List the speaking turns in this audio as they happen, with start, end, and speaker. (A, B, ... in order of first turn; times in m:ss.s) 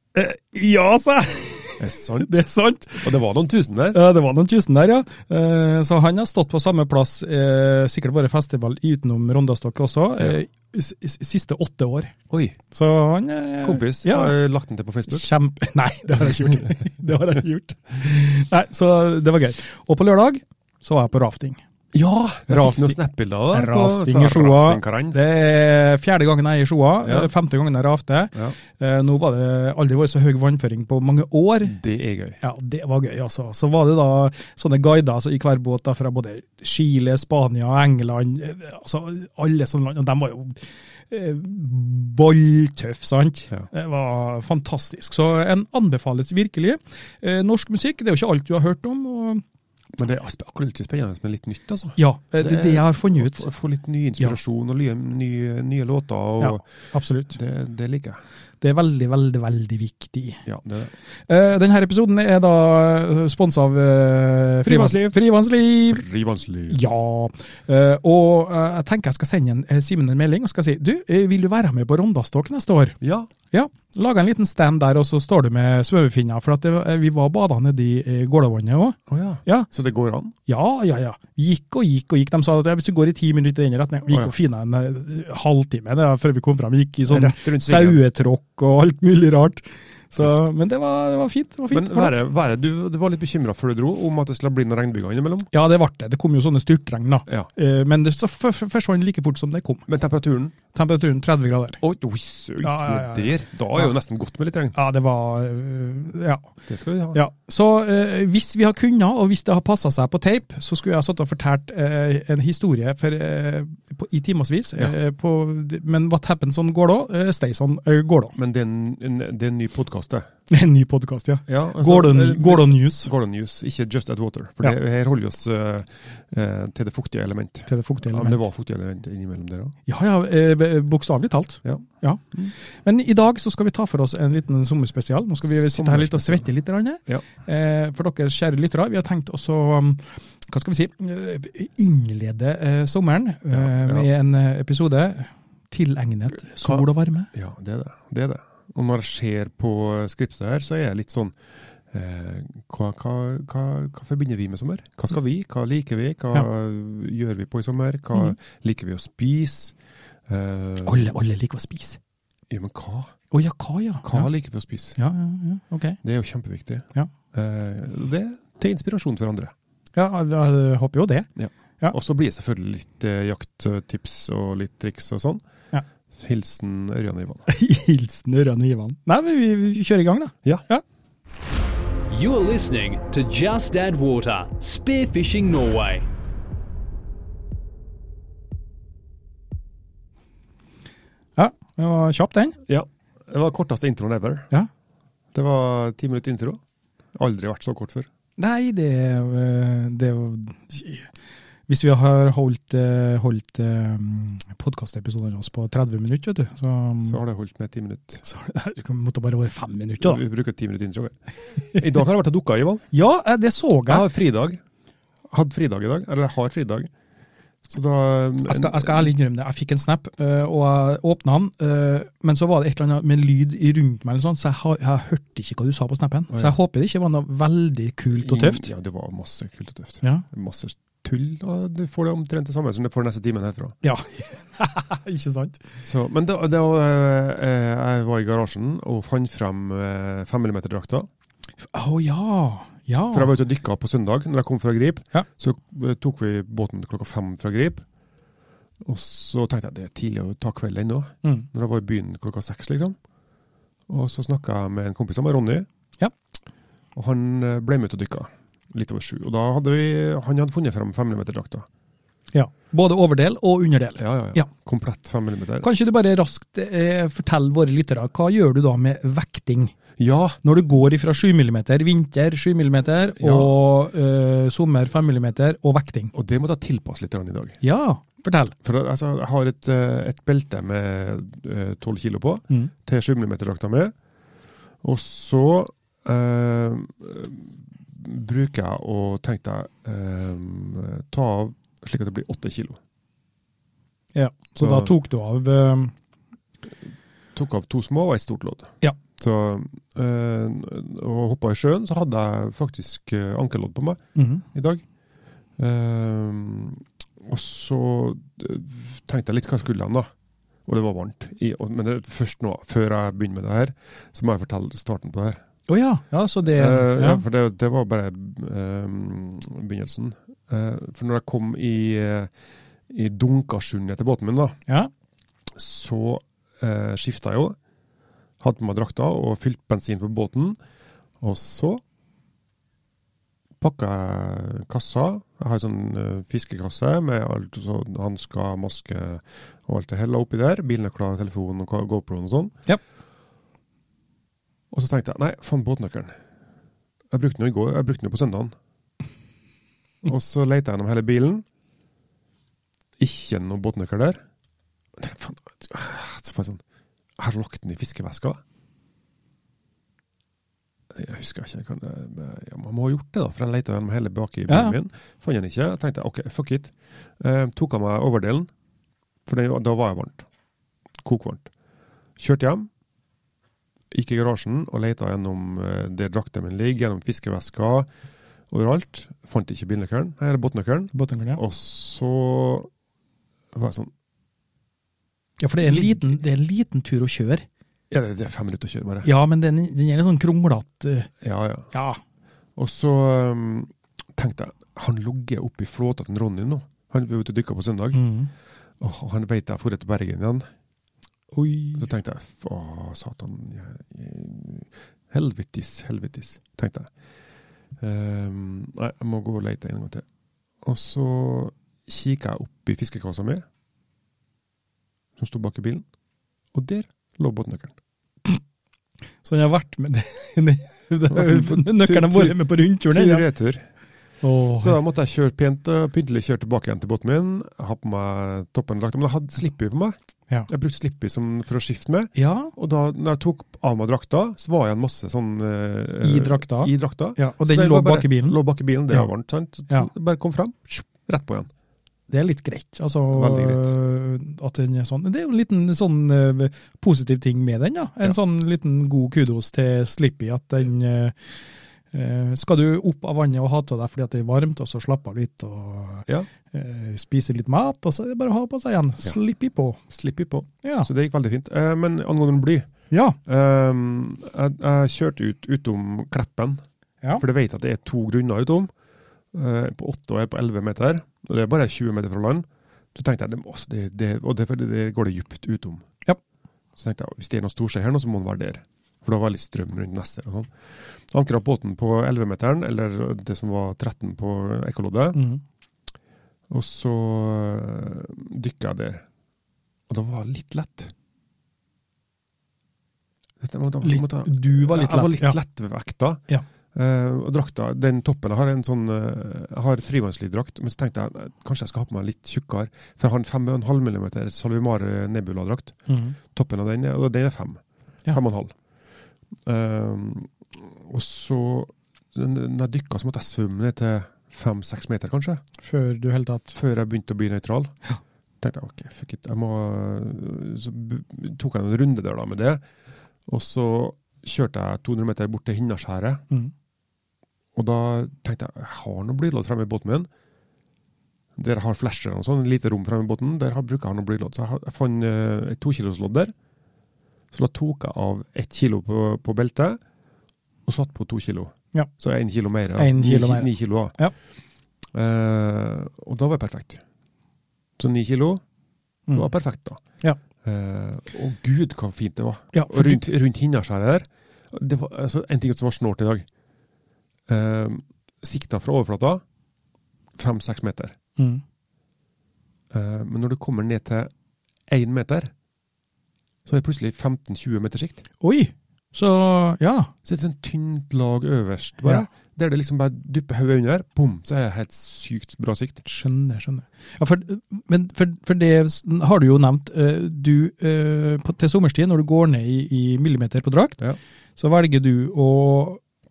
0:00.1-0:03.1 A
0:01.8-0:02.4 B
0:03.0-0:04.0 B
0:03.9-0:12.1 A
0:12.3-0:12.6 B
0:12.7-0:14.4 A
0:13.6-0:15.3 B
0:15.1-0:21.6 A
0:21.9-0:25.2 B
0:22.5-0:23.0 A
0:23.5-0:31.8 A
0:27.0-0:27.3 B
0:31.6-0:32.4 B
0:32.4-0:49.4 A
0:50.0-0:56.6 B
0:52.0-0:53.5 A
0:56.4-0:57.4 A
0:57.3-0:58.2 B
0:58.6-1:00.4 A
1:00.4-1:00.9 B
1:01.3-1:06.0 A
1:04.6-1:05.2 B
1:05.9-1:06.8 B
1:06.7-1:13.0 A
1:13.0-1:13.3 B
1:13.5-1:19.7 A
1:19.1-1:20.3 B
1:20.4-1:32.2 A
1:27.1-1:28.0 B
1:30.2-1:30.4 B
1:31.7-1:35.5 B
1:35.5-1:39.8 A
1:39.9-1:40.5 B
1:40.7-1:41.8 A
1:41.8-1:44.8 B
1:42.6-1:43.9 A
1:44.7-1:46.5 A
1:46.7-1:47.2 B
1:47.1-1:58.4 A
1:58.4-2:00.3 B
2:00.5-2:03.1 A
2:01.5-2:09.8 B
2:07.7-2:08.4 A
2:09.8-2:12.3 A
2:12.8-2:27.3 A
2:15.5-2:16.5 B
2:23.5-2:24.1 B
2:26.6-2:31.4 B
2:31.9-2:39.7 B
2:40.3-2:41.1 B
2:40.8-2:42.0 A
2:42.5-2:43.1 B
2:43.3-2:44.3 A
2:44.0-2:45.0 B
2:45.0-2:46.0 A
2:46.0-2:49.5 B
2:49.9-2:51.3 A
2:51.4-2:55.4 B
2:56.1-2:57.4 B
2:57.5-3:00.8 A
3:02.1-3:06.1 C
3:11.4-3:12.6 A
3:12.7-3:14.5 B
3:15.3-3:16.6 B
3:17.1-3:18.1 B
3:18.4-3:21.1 A
3:21.7-3:27.2 A
3:27.0-3:28.2 B
3:28.2-3:30.2 A
3:30.0-3:32.8 B
3:32.9-3:34.0 A
3:33.9-3:34.6 B
3:35.3-3:36.9 B
3:37.6-3:39.1 B
3:38.4-3:48.7 A
3:48.1-3:53.7 B
3:53.8-3:55.6 A
3:55.8-4:01.1 B
4:01.7-4:03.3 A
4:03.1-4:07.8 B
4:08.8-4:13.0 B
4:13.9-4:15.7 B
4:16.9-4:21.7 B
4:22.3-4:24.5 A
4:24.0-4:25.7 B
4:25.6-4:29.8 A
4:30.0-4:30.4 B
4:30.4-4:36.1 A
4:33.2-4:33.6 B
4:36.1-4:37.6 B
4:37.6-4:38.5 A
4:38.6-4:43.9 B
4:44.8-4:52.8 B
4:54.1-4:55.9 A
4:54.6-4:54.9 B
4:57.3-5:04.0 B
5:04.2-5:04.4 A
5:04.5-5:04.8 B
5:05.6-5:10.1 B
5:10.6-5:15.4 B
5:15.7-5:17.2 A
5:16.5-5:22.3 B
5:22.9-5:24.6 B
5:25.5-5:27.6 B
5:28.4-5:30.6 B
5:31.2-5:31.8 B
5:33.6-5:42.6 B
5:44.7-5:46.1 B
5:47.1-5:48.5 B
5:50.0-5:51.4 B
5:53.0-5:54.2 B
5:55.0-5:56.6 B
5:57.2-5:58.4 B
6:00.9-6:08.5 B
6:04.5-6:04.8 A
6:09.2-6:10.2 B
6:11.0-6:11.5 B
6:12.2-6:12.7 B
6:13.9-6:17.9 B
6:18.5-6:22.7 B
6:20.9-6:21.4 A
6:23.5-6:23.9 B
6:25.4-6:27.4 A
6:25.6-6:26.1 B
6:27.9-6:29.1 B
6:29.0-6:31.1 A
6:31.2-6:31.7 B
6:31.7-6:32.0 A
6:32.6-6:38.0 B
6:37.9-6:38.3 A
6:38.8-6:40.4 B
6:41.3-6:41.9 A
6:41.8-6:46.9 B
6:47.8-6:50.0 B
6:50.6-6:53.4 B
6:55.2-6:55.8 B
6:56.5-6:57.8 B
6:59.2-7:03.2 A
7:01.1-7:03.6 B
7:04.2-7:04.8 A
7:04.6-7:10.0 B
7:10.5-7:21.5 B
7:12.2-7:12.5 A
7:16.0-7:18.4 A
7:22.1-7:31.1 A
7:23.1-7:23.7 B
7:31.9-7:39.8 A
7:39.9-7:42.7 B
7:40.6-7:40.9 A
7:42.9-7:43.2 A
7:43.2-7:46.6 B
7:47.2-7:48.7 B
7:49.3-7:55.9 B
7:56.8-8:00.5 B
8:01.1-8:05.2 B
8:05.1-8:05.4 A
8:06.5-8:09.0 B
8:09.9-8:10.9 B
8:13.4-8:28.5 B
8:13.8-8:15.4 A
8:25.9-8:26.2 A
8:29.4-8:35.4 B
8:35.6-8:36.5 A
8:36.5-8:37.7 B
8:38.4-8:42.6 B
8:43.3-8:46.2 B
8:47.5-8:50.1 B
8:51.4-8:56.3 B
8:57.3-8:59.8 B
9:00.6-9:04.0 B
9:02.8-9:04.1 A
9:04.9-9:06.8 B
9:07.8-9:08.4 B
9:09.1-9:09.8 B
9:10.4-9:16.2 B
9:12.5-9:13.0 A
9:17.3-9:19.2 B
9:20.2-9:21.0 B
9:21.2-9:21.4 A
9:22.7-9:24.1 B
9:24.7-9:25.3 B
9:26.4-9:28.0 B
9:28.2-9:29.9 A
9:30.0-9:35.8 B
9:35.8-9:43.8 A
9:44.4-9:45.8 A